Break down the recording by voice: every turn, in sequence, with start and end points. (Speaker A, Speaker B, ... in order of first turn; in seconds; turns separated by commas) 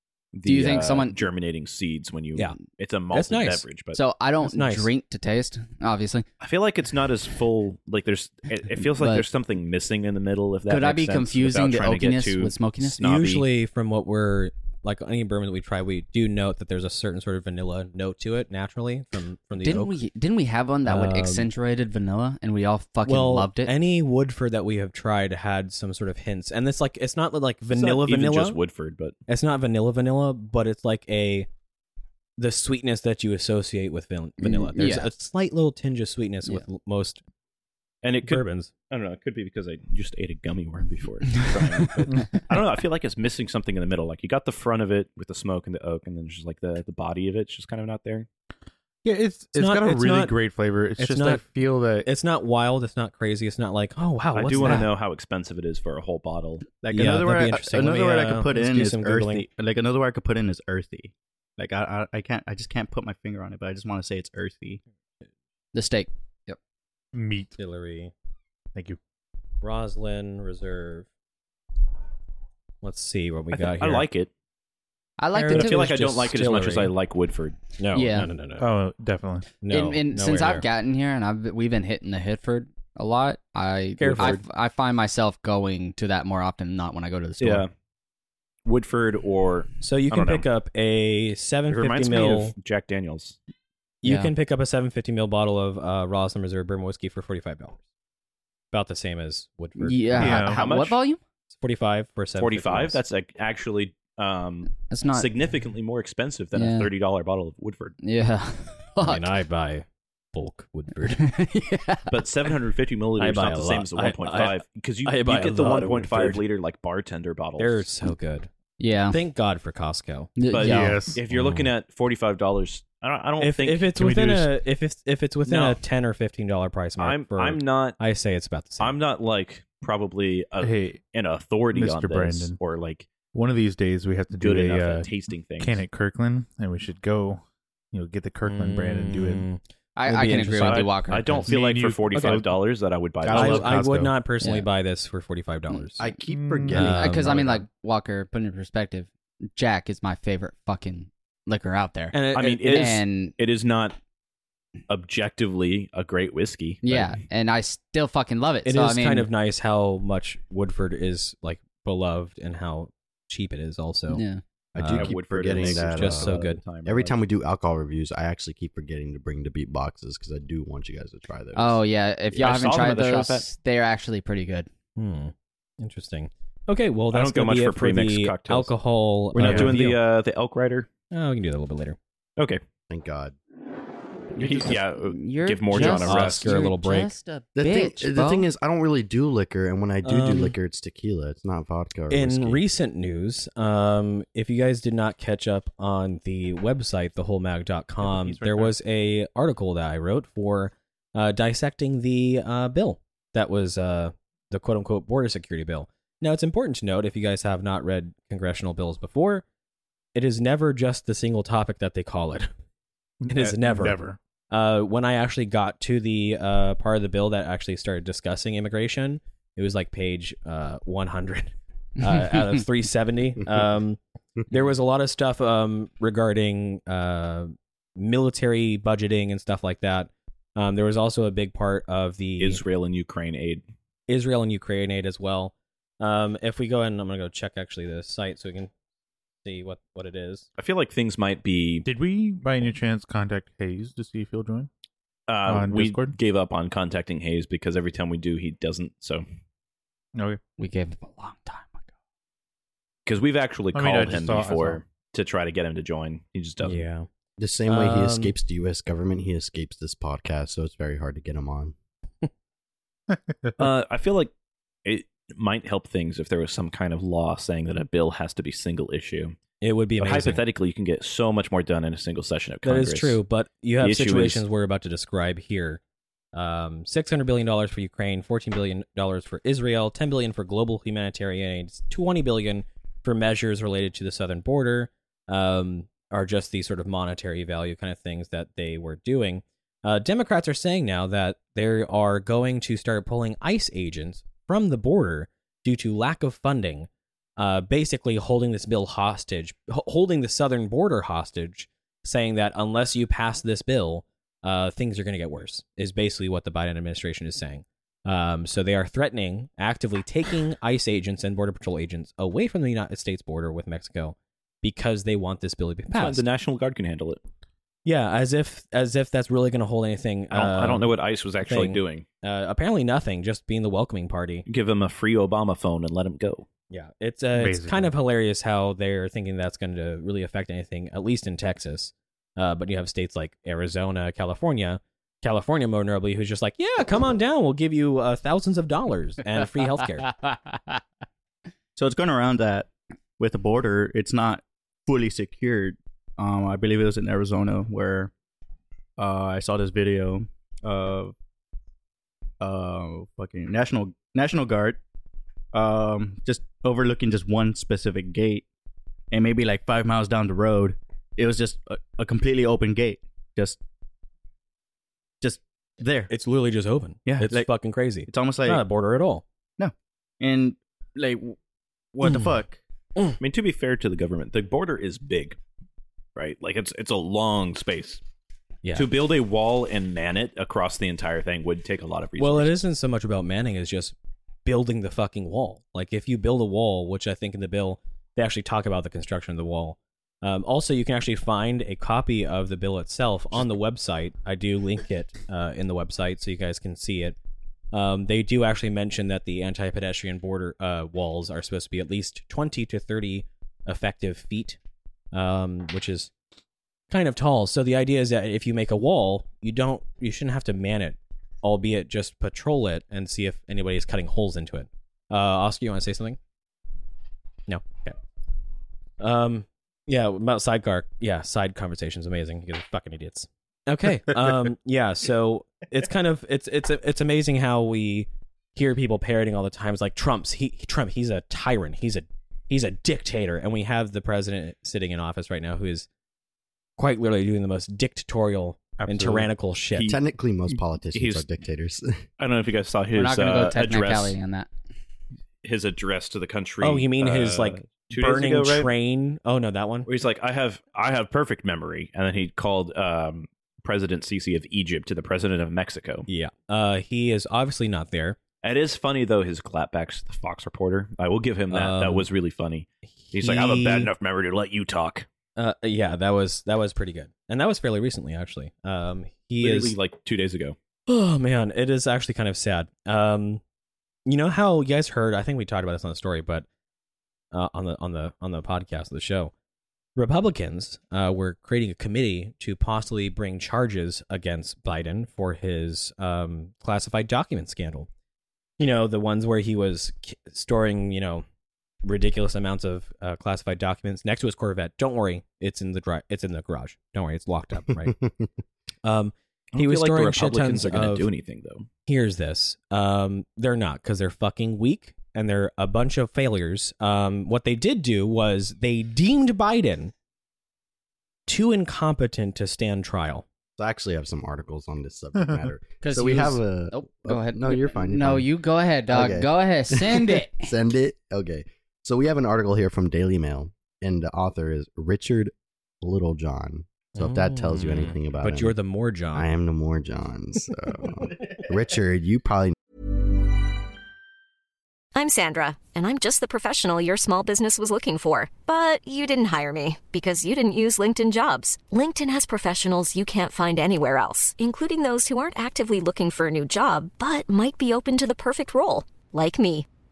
Speaker A: 0.3-4.0, Speaker B: 0.5-1.3, Speaker C: 3.1-3.6, Speaker B: 3.9-6.3, Speaker C: 4.4-4.9, Speaker A: 6.4-13.5, Speaker B: 8.8-9.3, Speaker B: 10.7-13.0, Speaker C: 13.0-20.0, Speaker B: 19.6-23.7, Speaker C: 20.9-21.5, Speaker C: 23.0-28.6, Speaker A: 27.7-29.2, Speaker C: 29.3-31.5, Speaker C: 32.4-37.2, Speaker B: 34.4-35.1, Speaker A: 38.0-48.3, Speaker C: 38.2-38.7, Speaker B: 41.3-41.9, Speaker D: 49.0-52.1, Speaker C: 49.5-50.4, Speaker C: 51.0-51.4, Speaker C: 52.0-54.9, Speaker A: 54.3-56.7, Speaker E: 56.8-64.8, Speaker C: 56.9-59.5, Speaker B: 65.7-66.6, Speaker D: 67.1-67.6, Speaker C: 67.6-68.1, Speaker C: 69.6-71.1, Speaker C: 72.8-74.1, Speaker A: 73.5-74.3, Speaker B: 75.2-76.1, Speaker C: 75.3-76.9, Speaker A: 75.5-77.6, Speaker C: 77.8-78.7, Speaker B: 77.9-78.3, Speaker D: 78.6-79.6, Speaker C: 79.6-80.7, Speaker B: 79.7-87.7, Speaker C: 84.0-84.4, Speaker A: 84.1-84.4, Speaker A: 87.4-87.7, Speaker A: 88.7-89.7, Speaker C: 89.8-92.5, Speaker A: 91.7-93.4, Speaker C: 94.0-97.8, Speaker B: 94.0-94.3, Speaker C: 98.7-100.6, Speaker B: 99.8-101.2, Speaker D: 100.2-100.6, Speaker A: 100.5-101.0, Speaker C: 101.5-103.0, Speaker A: 102.4-108.0, Speaker B: 104.8-105.3, Speaker B: 106.5-106.9, Speaker B: 108.0-109.3, Speaker C: 109.0-111.2, Speaker B: 111.1-112.2, Speaker A: 112.1-117.9, Speaker C: 113.2-116.4, Speaker C: 117.6-118.5, Speaker B: 118.8-119.2, Speaker C: 119.1-120.4, Speaker B: 120.4-121.1, Speaker A: 120.5-123.9, Speaker D: 120.6-121.2, Speaker C: 121.3-121.7, Speaker C: 123.4-129.0, Speaker D: 124.0-124.5, Speaker A: 125.5-125.8, Speaker A: 127.0-128.0, Speaker A: 128.8-133.1, Speaker D: 130.6-131.0, Speaker D: 131.7-132.6, Speaker D: 133.3-139.5, Speaker A: 134.4-135.8, Speaker C: 138.5-140.9, Speaker B: 140.0-141.5, Speaker A: 140.6-143.8, Speaker D: 141.5-142.6, Speaker C: 142.1-142.4, Speaker D: 143.2-144.2, Speaker C: 143.3-146.1, Speaker B: 144.4-144.7, Speaker F: 146.0-147.7, Speaker D: 146.3-146.9, Speaker C: 146.7-147.4, Speaker B: 146.7-153.4, Speaker C: 152.1-153.0, Speaker A: 152.3-154.0, Speaker A: 154.9-157.1, Speaker B: 156.8-159.3, Speaker C: 158.7-164.2, Speaker B: 164.1-164.4, Speaker F: 164.8-171.8, Speaker C: 164.8-166.6, Speaker A: 164.8-167.2, Speaker B: 171.6-174.7, Speaker A: 172.3-173.5, Speaker C: 175.0-180.0, Speaker A: 177.1-178.7, Speaker A: 179.3-180.9, Speaker D: 179.4-179.7, Speaker C: 181.1-182.0, Speaker F: 182.9-183.4, Speaker A: 184.4-186.6, Speaker B: 184.4-188.5, Speaker C: 185.7-187.1, Speaker F: 187.6-192.6, Speaker C: 190.0-190.5, Speaker C: 192.1-209.4, Speaker D: 198.0-198.8, Speaker C: 210.2-212.5, Speaker D: 213.2-214.2, Speaker C: 213.3-224.0, Speaker C: 224.5-232.6, Speaker A: 232.4-233.6, Speaker C: 234.1-238.7, Speaker C: 239.4-240.5, Speaker A: 240.6-241.9, Speaker D: 241.8-244.7, Speaker A: 245.3-249.2, Speaker D: 245.4-246.2, Speaker D: 250.2-250.4, Speaker B: 250.6-251.8, Speaker A: 253.1-256.9, Speaker D: 253.7-254.8, Speaker C: 256.6-257.1, Speaker F: 257.4-261.7, Speaker C: 257.7-258.4, Speaker A: 263.6-264.3, Speaker A: 264.9-269.4, Speaker C: 269.6-270.4, Speaker A: 270.0-273.2, Speaker C: 272.6-275.8, Speaker A: 273.8-274.4, Speaker C: 276.3-316.2, Speaker A: 315.9-317.2, Speaker C: 317.9-320.9, Speaker A: 320.3-322.1, Speaker C: 321.4-324.4, Speaker A: 324.5-326.5, Speaker C: 326.7-340.1, Speaker D: 327.4-327.9, Speaker B: 340.2-340.6, Speaker E: 341.8-348.1, Speaker E: 349.0-351.1, Speaker E: 352.4-354.8, Speaker E: 355.5-358.5, Speaker E: 359.1-363.6, Speaker E: 365.2-366.1, Speaker C: 366.1-369.2, Speaker E: 367.1-367.5, Speaker E: 368.1-368.6, Speaker E: 369.6-371.4, Speaker E: 371.9-372.6, Speaker C: 372.0-372.4, Speaker A: 373.2-375.4, Speaker A: 376.2-378.0, Speaker A: 378.8-382.6, Speaker C: 382.2-383.9, Speaker C: 384.4-397.2, Speaker C: 397.7-404.6, Speaker C: 405.1-406.1, Speaker C: 406.9-416.2, Speaker C: 417.5-418.0, Speaker C: 419.0-435.9, Speaker C: 436.8-439.9, Speaker D: 438.8-439.3, Speaker F: 439.9-442.0, Speaker A: 440.9-441.3, Speaker A: 442.2-444.2, Speaker B: 442.9-444.5, Speaker A: 445.4-448.7, Speaker C: 446.6-449.9, Speaker A: 449.9-456.1, Speaker C: 456.1-458.2, Speaker A: 458.4-465.1, Speaker C: 461.5-462.1, Speaker C: 463.0-463.9, Speaker C: 465.4-469.7, Speaker A: 469.4-470.6, Speaker C: 470.9-473.4, Speaker C: 474.1-476.5, Speaker C: 477.3-479.3, Speaker C: 480.0-487.9, Speaker C: 488.6-491.2, Speaker C: 491.8-497.9, Speaker F: 497.7-498.3, Speaker C: 498.9-501.1, Speaker A: 499.5-501.7, Speaker C: 501.9-509.9, Speaker C: 511.3-513.2, Speaker F: 513.6-518.3, Speaker B: 515.8-520.5, Speaker F: 518.9-528.6, Speaker C: 527.0-529.3, Speaker F: 529.1-532.6, Speaker G: 535.0-549.7